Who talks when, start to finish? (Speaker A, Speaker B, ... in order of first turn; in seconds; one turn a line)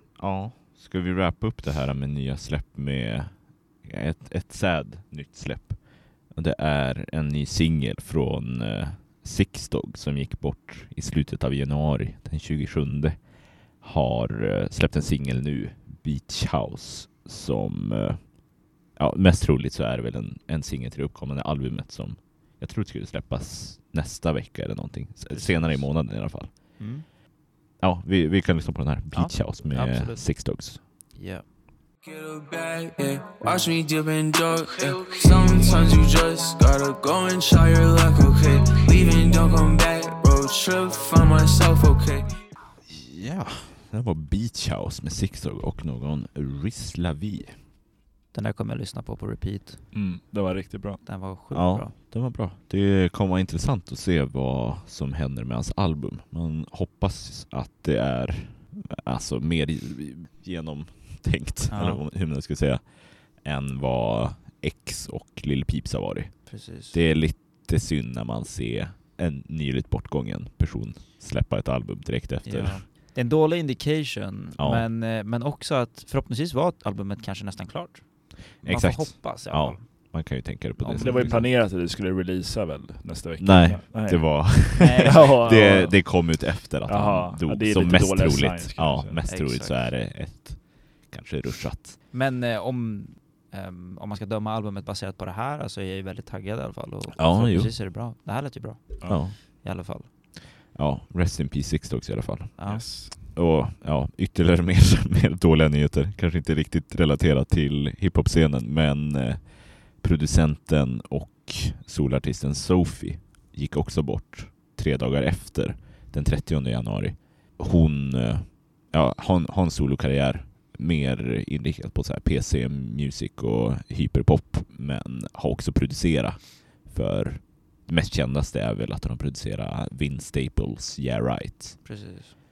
Speaker A: 0.2-26.5
Speaker B: 25.3-26.3
Speaker B: 26.8-27.0
Speaker A: 27.8-30.8
Speaker B: 29.1-31.4
Speaker C: 32.0-42.3
Speaker A: 42.9-47.6
Speaker B: 48.3-49.8
Speaker D: 49.9-51.0
Speaker B: 51.0-51.9
Speaker A: 51.5-72.8
Speaker B: 61.7-62.0
Speaker B: 66.5-67.0
Speaker B: 72.4-80.2
Speaker A: 74.6-74.8
Speaker A: 78.6-81.5
Speaker B: 80.8-81.5
Speaker D: 81.0-86.1
Speaker A: 83.4-92.0
Speaker B: 84.8-85.7
Speaker D: 86.8-89.2
Speaker B: 89.3-89.9
Speaker B: 92.1-100.1
Speaker A: 97.2-97.8
Speaker A: 99.0-131.8
Speaker B: 102.6-102.9
Speaker D: 102.7-103.1
Speaker B: 131.8-132.3